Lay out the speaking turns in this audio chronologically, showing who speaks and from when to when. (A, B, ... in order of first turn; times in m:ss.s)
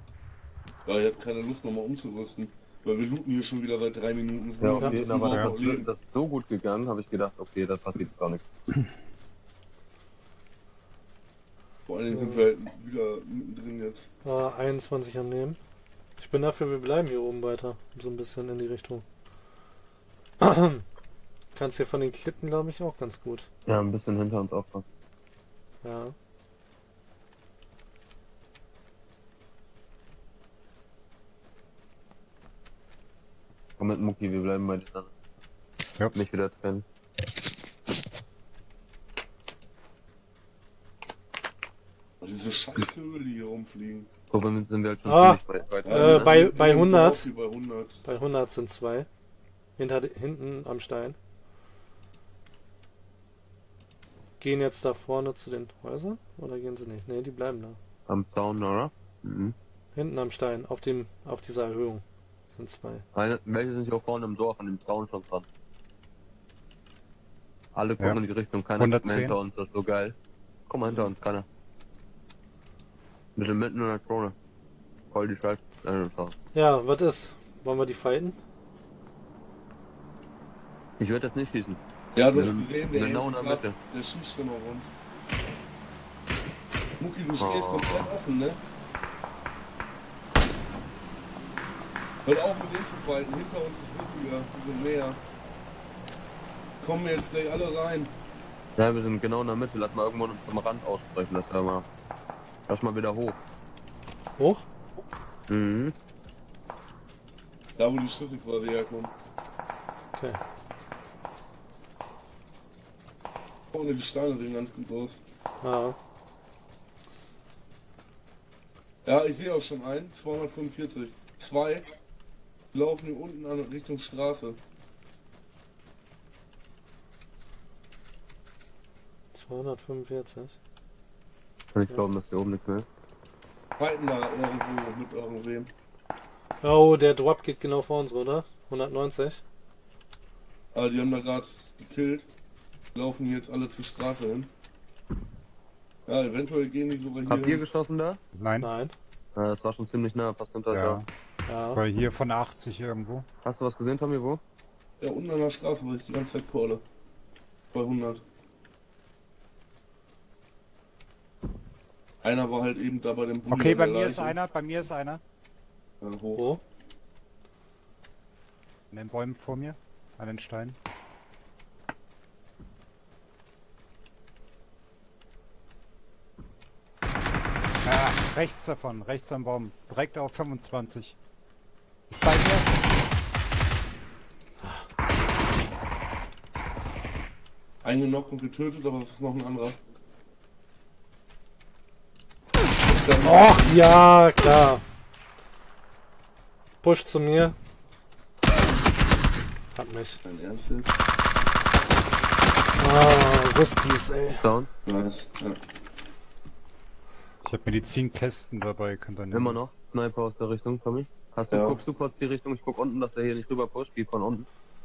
0:00.8-0:05.9 A
0:04.6-0:08.4 B
0:11.9-0:14.1 A
0:12.1-0:12.4 C
0:14.2-0:15.6 C
0:16.2-0:19.0 C
0:20.4-0:20.8 C
0:21.5-0:23.5 C
0:23.6-0:24.8 B
0:25.8-0:26.1 C
0:33.8-0:35.1 B
0:36.1-0:36.8 B
0:42.2-0:44.1 A
0:44.3-0:46.4 B
0:45.0-0:47.3 C
0:45.8-0:48.0 A
0:48.0-0:49.1 C
0:49.8-0:51.2 C
0:54.4-0:57.8 C
0:58.1-0:59.5 B
0:59.9-1:03.0 C
1:03.1-1:05.4 B
1:07.7-1:10.2 B
1:08.8-1:09.3 D
1:10.7-1:11.4 B
1:10.8-1:11.1 A
1:13.4-1:14.3 B
1:15.1-1:16.3 B
1:16.5-1:18.4 C
1:21.0-1:21.8 B
1:22.1-1:24.9 A
1:22.3-1:23.8 B
1:27.0-1:28.6 A
1:27.4-1:28.1 B
1:32.2-1:35.2 A
1:36.8-1:38.1 A
1:38.8-1:41.8 B
1:42.7-1:43.4 B
1:44.4-1:44.6 C
1:45.5-1:45.9 B
1:47.8-1:49.1 A
1:50.1-1:50.4 C
1:53.7-1:55.2 A
1:55.6-1:56.0 C
1:59.0-2:01.8 A
2:02.7-2:04.6 A
2:09.3-2:10.6 C
2:11.7-2:12.8 B
2:13.8-2:15.7 A
2:16.6-2:19.4 C
2:20.7-2:22.3 A
2:22.9-2:24.5 A
2:26.1-2:27.6 A
2:27.2-2:28.2 B
2:28.3-2:28.7 D
2:28.6-2:28.9 C
2:29.3-2:31.0 B
2:30.7-2:33.3 D
2:31.4-2:31.8 C
2:33.4-2:34.4 B
2:35.0-2:36.8 A
2:37.7-2:38.2 A
2:42.2-2:44.3 A
2:43.5-2:45.2 D
2:46.0-2:46.6 A
2:48.9-2:50.8 D
2:57.8-3:01.2 D
3:02.1-3:02.7 D
3:04.6-3:04.9 C
3:07.8-3:09.8 A
3:12.8-3:13.6 A
3:13.2-3:14.8 C
3:16.8-3:17.5 C
3:19.7-3:20.2 C
3:20.2-3:20.9 A
3:22.8-3:24.5 C
3:24.4-3:24.7 B
3:24.8-3:25.6 A
3:27.4-3:29.6 D
3:29.3-3:34.4 B
3:31.5-3:31.8 A